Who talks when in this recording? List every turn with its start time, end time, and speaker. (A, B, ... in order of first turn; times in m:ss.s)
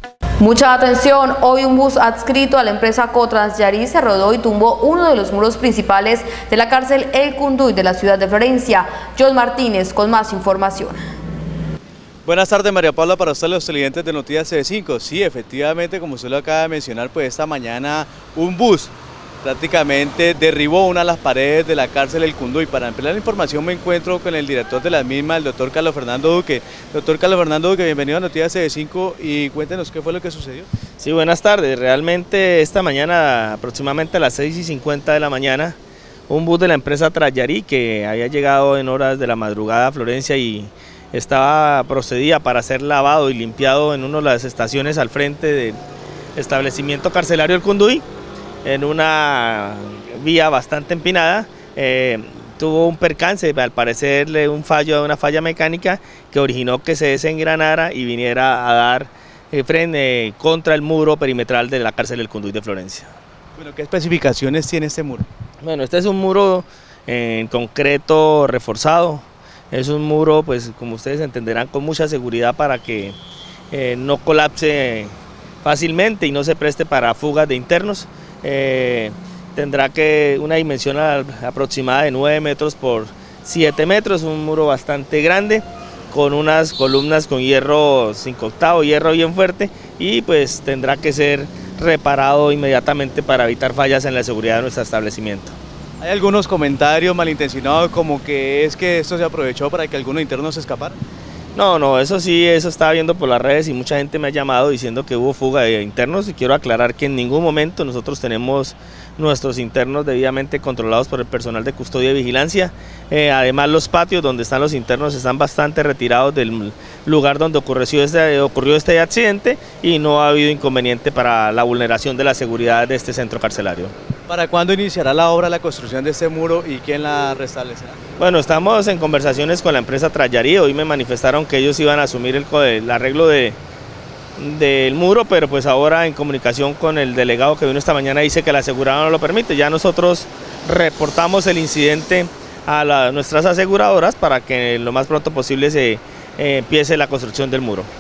0:00.4-0:11.0 A
0:12.2-0:30.7 B
0:31.0-0:35.8 C
0:36.3-0:45.8 C
0:46.4-0:48.0 C
0:48.6-1:03.1 C
1:03.6-1:05.3 B
1:05.6-1:13.2 C
1:13.7-1:35.6 C
1:36.0-1:41.0 B
1:41.6-2:03.9 C
2:04.3-2:08.0 B
2:08.2-2:13.6 C
2:14.4-2:27.9 C